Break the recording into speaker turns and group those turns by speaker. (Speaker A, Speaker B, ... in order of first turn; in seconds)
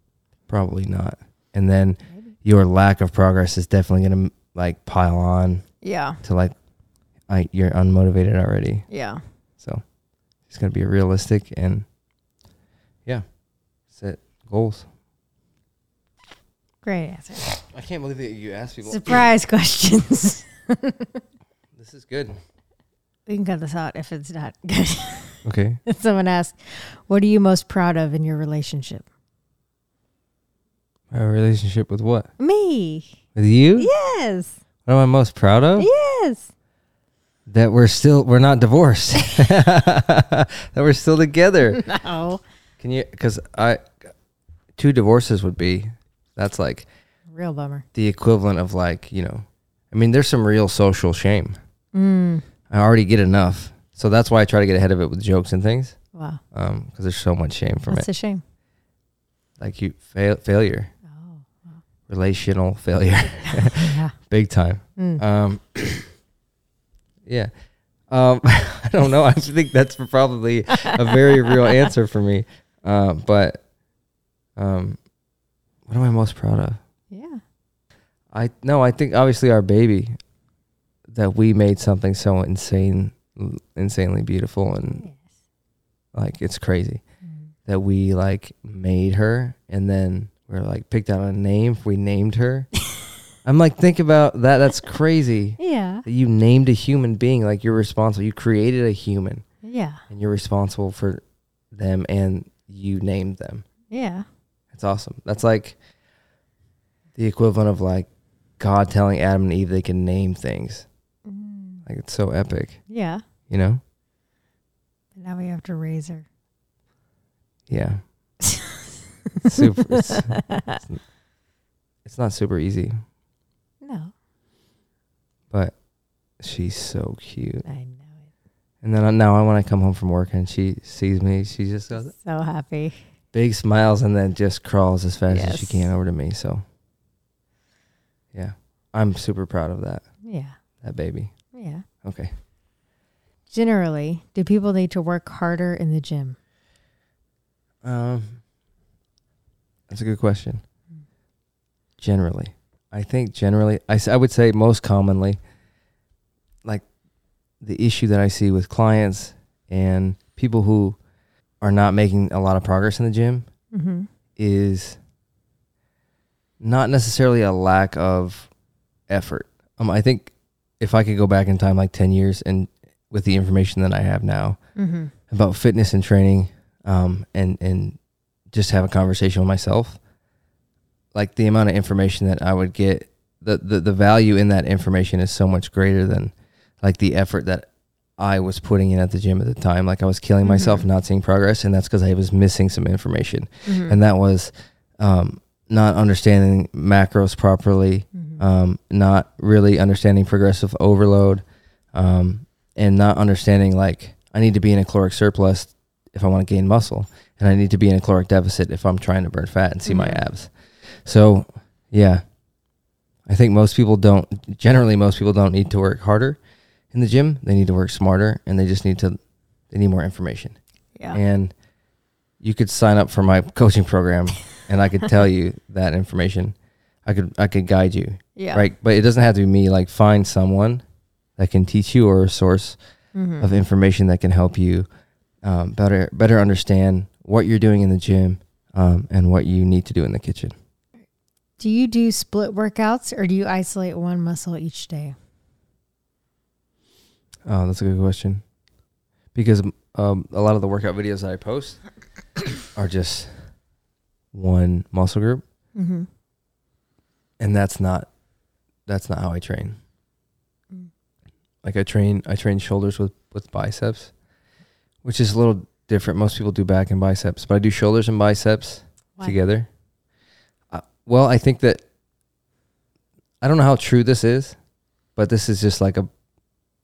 Speaker A: 0.5-5.6, 6.2-6.5, 7.3-8.9, 10.5-11.9, 13.9-14.9, 17.7-19.2, 21.8-22.4, 25.4-25.8, 31.1-32.3, 33.4-33.9, 34.9-35.9, 37.5-41.8, 42.8-43.8, 44.8-46.9, 47.9-51.6, 52.7-56.0, 56.5-58.1, 59.6-60.9, 62.1-66.1, 67.2-67.5, 68.1-73.6, 74.6-75.0, 75.9-76.8, 78.3-80.2, 81.1-85.0, 86.1-87.0, 87.7-92.7, 93.4-99.4, 100.1-103.6, 104.7-105.8, 107.1-108.1, 108.6-110.9, 111.8-112.8, 113.5-113.8, 117.7-118.0, 119.4-121.0, 122.0-123.0, 126.4-127.6, 128.8-132.1, 133.3-136.6, 138.3-140.0, 140.8-141.3, 142.0-142.3, 147.8-148.4, 149.9-150.6, 152.0-155.4, 157.6-161.0, 161.6-163.5, 164.4-165.0, 166.6-168.5, 169.1-174.6, 175.3-178.0, 178.5-180.0, 181.1-187.7, 188.2-210.5, 211.0-212.2, 213.3-216.4, 216.9-219.2, 219.7-220.6, 221.1-221.5, 222.4-230.8, 231.4-232.8, 233.4-234.9, 235.4-240.5, 247.4-248.4, 249.3-251.8, 252.7-253.3, 254.3-255.4, 257.4-258.1, 258.9-259.8, 261.6-264.1, 265.0-269.7, 270.7-271.8, 273.4-274.6, 275.1-276.1
Speaker B: 5.8-6.2, 8.9-9.2, 16.8-17.5, 18.9-21.2, 23.3-29.1, 32.4-33.1, 33.8-34.5, 35.8-36.5, 41.7-42.4, 47.3-47.9, 51.9-52.4, 56.1-56.4, 57.9-58.4, 61.1-61.8, 63.4-64.1, 65.0-65.2, 70.7-71.9, 77.1-77.4, 84.8-85.2, 87.2-87.5, 95.6-96.0, 99.6-100.0, 103.9-104.2, 111.2-111.8, 112.9-113.2, 115.2-116.2, 118.4-120.8, 123.8-124.1, 127.6-128.1, 131.9-133.0, 135.3-135.9, 140.2-140.6, 141.5-141.8, 143.5-146.4, 163.7-164.1, 174.8-175.1, 190.4-190.9, 193.7-194.0, 198.1-198.4, 209.9-210.2, 228.4-228.7, 233.1-233.5, 241.6-245.2, 255.7-256.1